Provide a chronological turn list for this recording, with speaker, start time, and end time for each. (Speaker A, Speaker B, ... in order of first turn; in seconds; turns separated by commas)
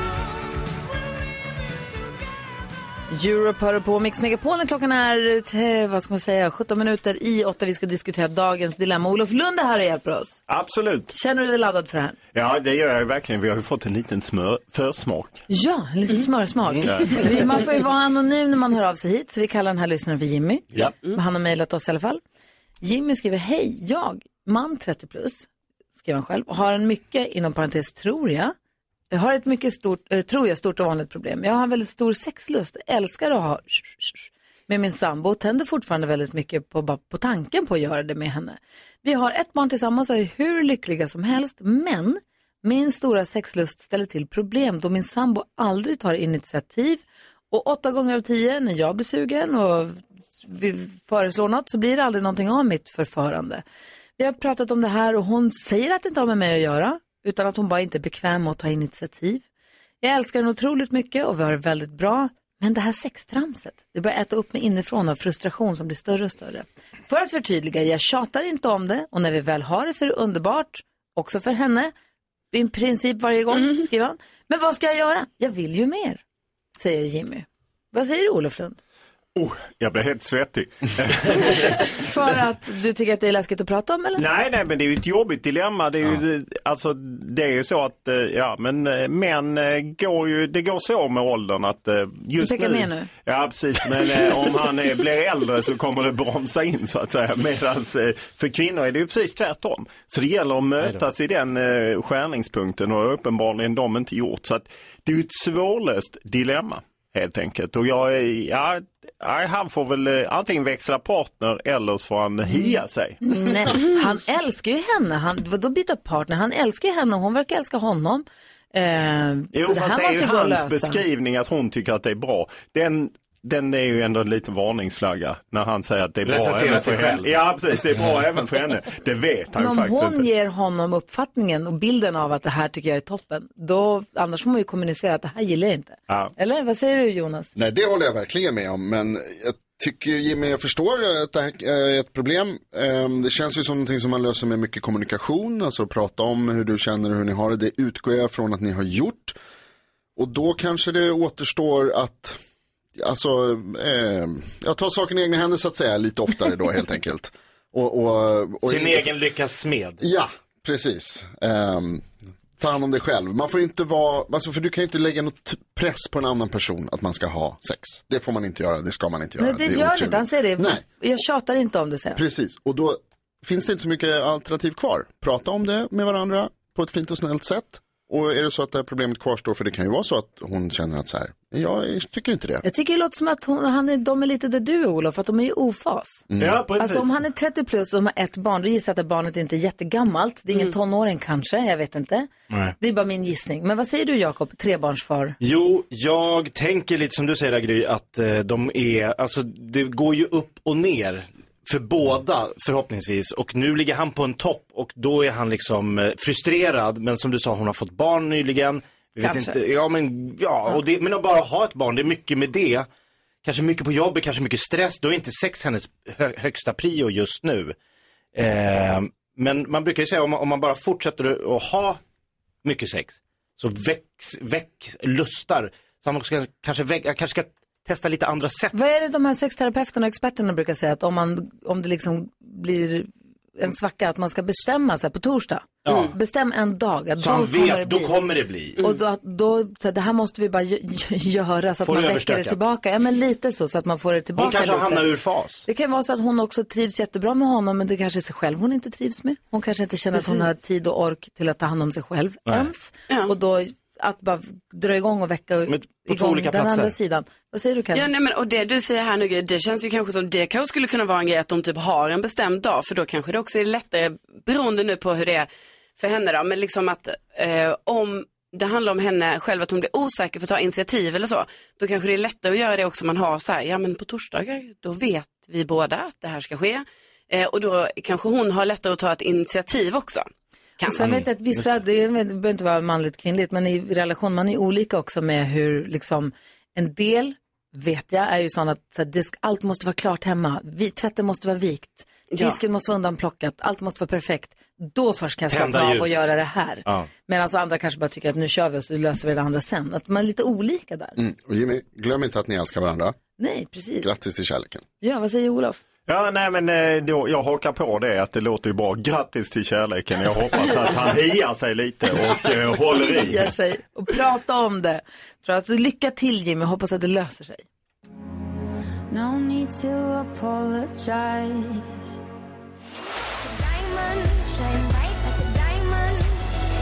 Speaker A: 3.1-10.4, Speaker B: 10.5-11.1, Speaker A: 11.1-12.2, Speaker B: 12.3-15.4, Speaker A: 15.5-22.2, Speaker C: 16.8-17.2, Speaker B: 16.8-17.2, Speaker A: 22.8-25.5, Speaker A: 26.0-28.5, Speaker A: 29.1-53.6, Speaker A: 54.2-59.4, Speaker A: 60.0-71.9, Speaker A: 72.5-76.2, Speaker A: 76.7-78.8, Speaker B: 79.3-81.9, Speaker A: 81.8-84.2, Speaker B: 84.1-113.2, Speaker A: 92.4-93.1, Speaker A: 112.5-121.0, Speaker B: 119.5-130.2, Speaker C: 126.2-127.3, Speaker A: 129.6-137.5, Speaker D: 137.5-149.4, Speaker D: 150.2-152.4, Speaker D: 152.9-159.1, Speaker C: 158.6-160.0, Speaker D: 160.0-170.8, Speaker A: 169.4-172.2, Speaker D: 172.2-182.6, Speaker A: 182.6-186.2, Speaker D: 186.3-186.6, Speaker B: 186.4-187.2, Speaker A: 186.8-192.3, Speaker A: 192.8-195.3, Speaker C: 195.4-212.9, Speaker A: 209.2-209.6, Speaker C: 213.4-217.8, Speaker C: 218.3-222.0, Speaker C: 222.6-228.8, Speaker A: 228.7-238.1, Speaker C: 235.8-236.1, Speaker C: 237.2-238.8, Speaker A: 238.8-245.1, Speaker C: 241.8-242.6, Speaker C: 244.4-245.7, Speaker A: 245.7-258.1, Speaker E: 250.1-250.4, Speaker C: 255.7-256.9, Speaker E: 257.9-280.3, Speaker E: 280.8-281.0, Speaker A: 280.9-301.2, Speaker C: 281.0-281.7, Speaker E: 292.3-292.6, Speaker C: 295.5-296.3, Speaker D: 301.2-303.1, Speaker A: 303.4-304.1, Speaker D: 304.0-304.8, Speaker A: 305.0-305.8, Speaker B: 306.1-313.5, Speaker A: 313.1-317.6, Speaker F: 319.1-321.9, Speaker F: 323.4-326.5